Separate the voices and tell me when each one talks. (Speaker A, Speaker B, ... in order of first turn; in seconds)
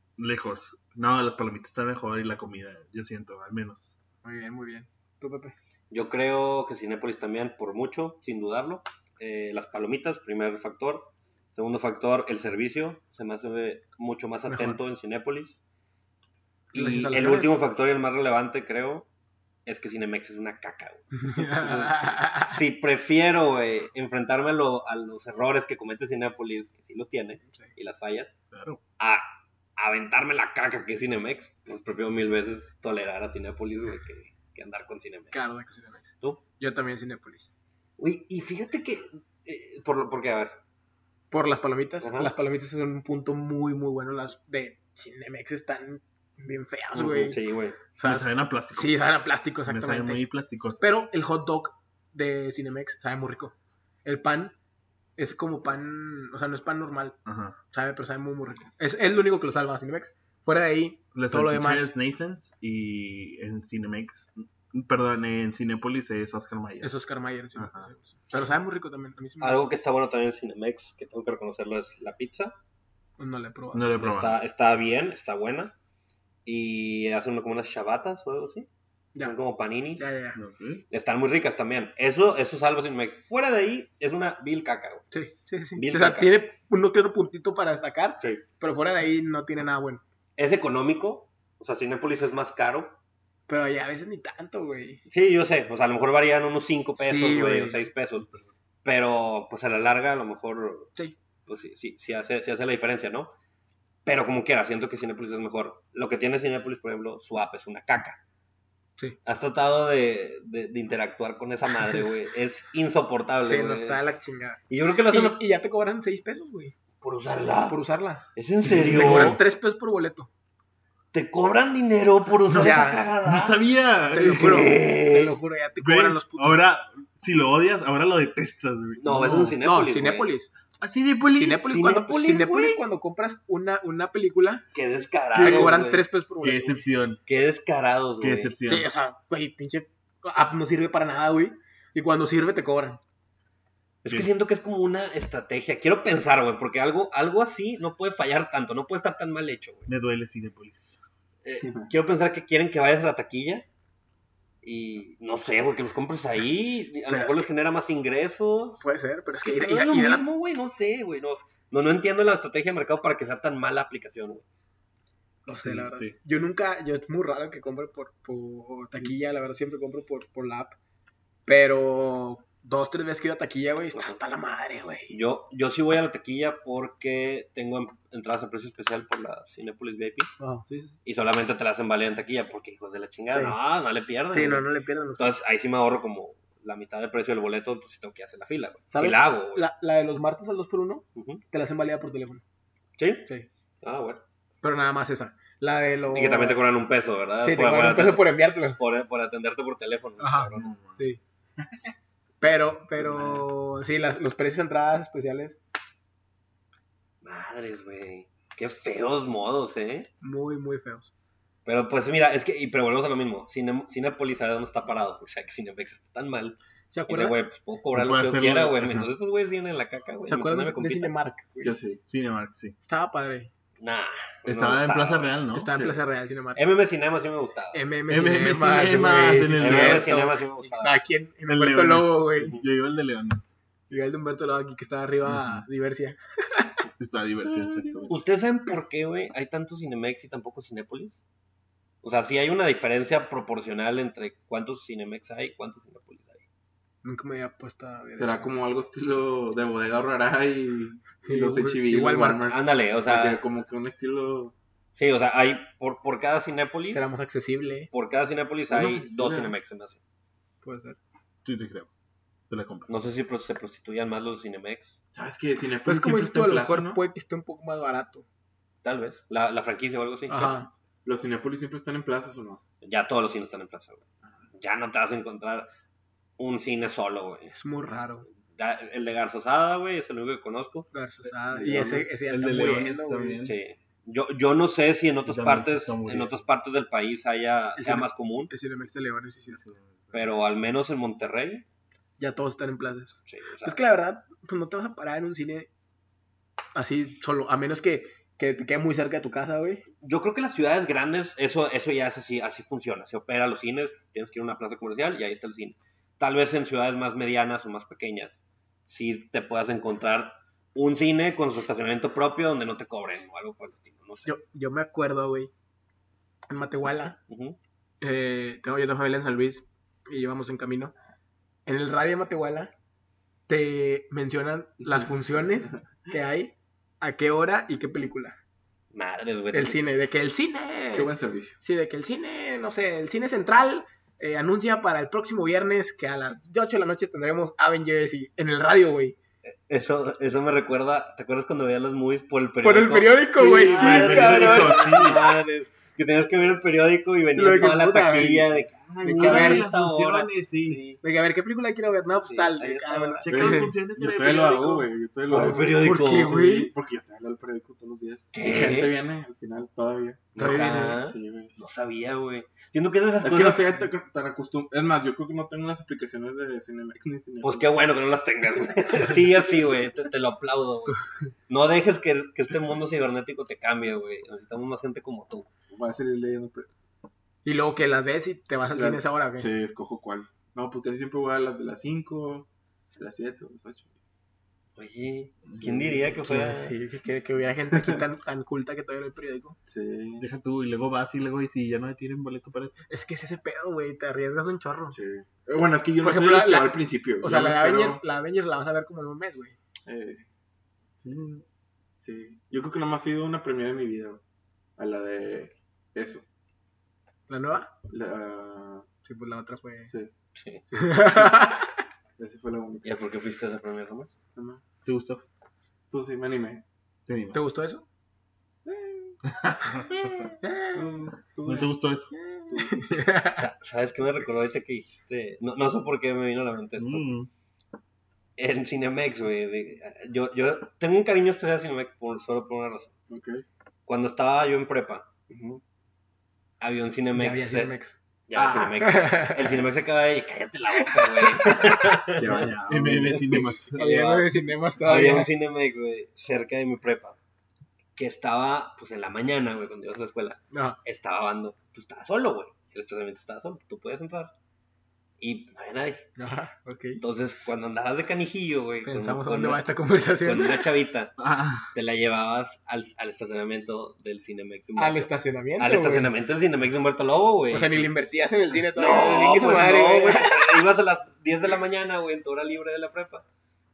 Speaker A: 0.2-4.0, 28.5-28.8, 48.0-49.0, 49.6-50.9, 57.2-57.6, 61.1-66.9, 67.5-67.9, 73.7-74.4, 80.3-80.8, 98.2-98.5, 118.7-119.4, 122.5-124.7, 125.8-129.6, 130.8-131.8, 135.4-135.8, 136.4-137.2, 138.2-138.9, 149.9-151.0, 165.5-166.2, 200.6-201.3, 217.9-219.1, 222.1-222.8, 224.4-225.7, 228.1-230.1, 231.5-233.5, 235.2-235.7, 237.0-238.2, 261.4-261.9, 262.5-262.9, 281.6-283.6, 285.2-286.4, 289.5-290.3, 343.6-345.2, 348.9-350.8, 353.2-354.9, 390.2-392.8, 401.0-401.4, 414.8-415.2, 417.1-417.4, 419.3-420.1, 421.4-422.1, 426.8-427.3, 442.3-444.2, 461.2-461.7
Speaker B: 4.2-5.5, 14.5-14.8, 16.7-17.6, 21.1-22.6, 35.3-37.5, 41.3-47.4, 48.0-50.2, 50.8-53.5, 54.0-54.5, 55.2-57.2, 57.7-61.9, 66.8-69.7, 73.2-73.9, 80.0-80.4, 85.1-90.0, 93.5-95.0, 97.0-97.8, 113.4-116.7, 117.7-120.3, 122.5-123.0, 124.1-126.6, 129.2-130.5, 131.3-134.6, 135.3-136.8, 138.7-143.0, 157.1-157.5, 158.8-160.2, 165.4-170.8, 171.4-175.1, 180.4-180.9, 184.3-185.4, 188.9-192.4, 194.6-196.6, 197.4-198.8, 200.2-201.2, 202.4-205.6, 210.2-211.1, 216.9-217.3, 220.2-221.7, 222.8-223.5, 225.5-226.7, 227.7-232.6, 233.9-236.8, 247.0-248.5, 251.2-252.5, 256.9-257.9, 260.6-261.0, 265.8-268.2, 270.3-270.7, 277.5-278.2, 280.9-283.4, 287.8-289.6, 292.2-295.7, 296.7-299.8, 314.2-315.5, 316.5-317.2, 318.0-320.9, 321.6-322.7, 323.5-328.4, 329.5-339.1, 342.6-345.1, 347.3-348.5, 349.0-349.7, 351.0-353.7, 355.3-356.7, 360.4-361.0, 377.4-379.5, 386.2-389.6, 392.9-394.9, 396.0-399.6, 407.3-407.7, 409.0-409.9, 410.8-411.8, 417.3-417.9, 420.4-420.8, 422.3-423.4, 437.1-439.6, 440.8-441.9, 443.7-445.3, 450.5-450.8, 456.2-457.0, 458.8-460.7, 464.8-466.1, 467.5-470.6
Speaker C: 5.9-15.6, 16.7-19.1, 19.6-28.3, 29.0-35.4, 38.0-40.6, 42.0-42.3, 46.9-47.8, 69.4-72.5, 74.0-75.7, 76.5-78.7, 79.2-80.2, 80.9-85.0, 85.8-86.3, 90.4-92.9, 95.1-98.3, 98.8-100.9, 101.5-103.3, 104.0-108.2, 109.2-114.0, 114.7-115.4, 117.0-117.8, 118.3-119.4, 121.1-123.6, 124.2-125.3, 129.0-130.3, 131.7-132.8, 134.7-136.0, 137.2-138.5, 144.0-149.9, 151.4-153.6, 154.6-158.8, 159.4-164.4, 175.1-180.3, 181.0-184.7, 185.2-189.7, 191.1-191.4, 193.0-193.3, 193.8-194.2, 196.1-200.7, 207.2-210.1, 211.6-216.6, 217.1-221.1, 223.8-225.9, 226.5-227.8, 229.6-230.9, 238.1-241.2, 242.0-246.4, 252.4-253.4, 254.9-257.1, 257.9-260.0, 262.9-265.0, 268.8-270.6, 272.8-274.0, 274.5-275.7, 276.4-277.6, 278.5-280.9, 283.4-288.5, 290.1-291.6, 293.3-293.8, 300.0-314.3, 317.3-317.6, 328.9-329.8, 339.4-351.0, 352.2-353.3, 355.3-356.5, 358.3-358.9, 360.4-363.6, 367.4-375.5, 384.8-386.7, 410.4-410.6, 412.8-414.1, 423.4-427.1, 428.4-432.9, 433.9-435.1, 436.6-437.7, 438.3-442.5, 444.8-447.2, 447.9-454.3, 455.2-456.0, 457.0-467.9, 468.7-473.2
Speaker D: 221.6-222.0, 248.2-254.5, 258.7-259.5, 265.1-267.0, 271.0-272.6, 281.6-282.0, 330.9-331.6, 353.3-361.5, 363.2-367.7, 375.7-376.7, 378.7-383.9, 385.6-386.1, 387.7-388.0, 389.7-390.2, 394.9-398.0, 399.8-400.2, 402.0-404.2, 404.8-406.2, 407.9-408.9, 410.7-411.4, 412.2-412.9, 414.4-414.6, 415.9-416.6, 418.6-419.2, 420.7-421.7, 422.5-422.9, 433.1-433.4, 435.3-435.6, 438.4-438.7, 442.2-443.5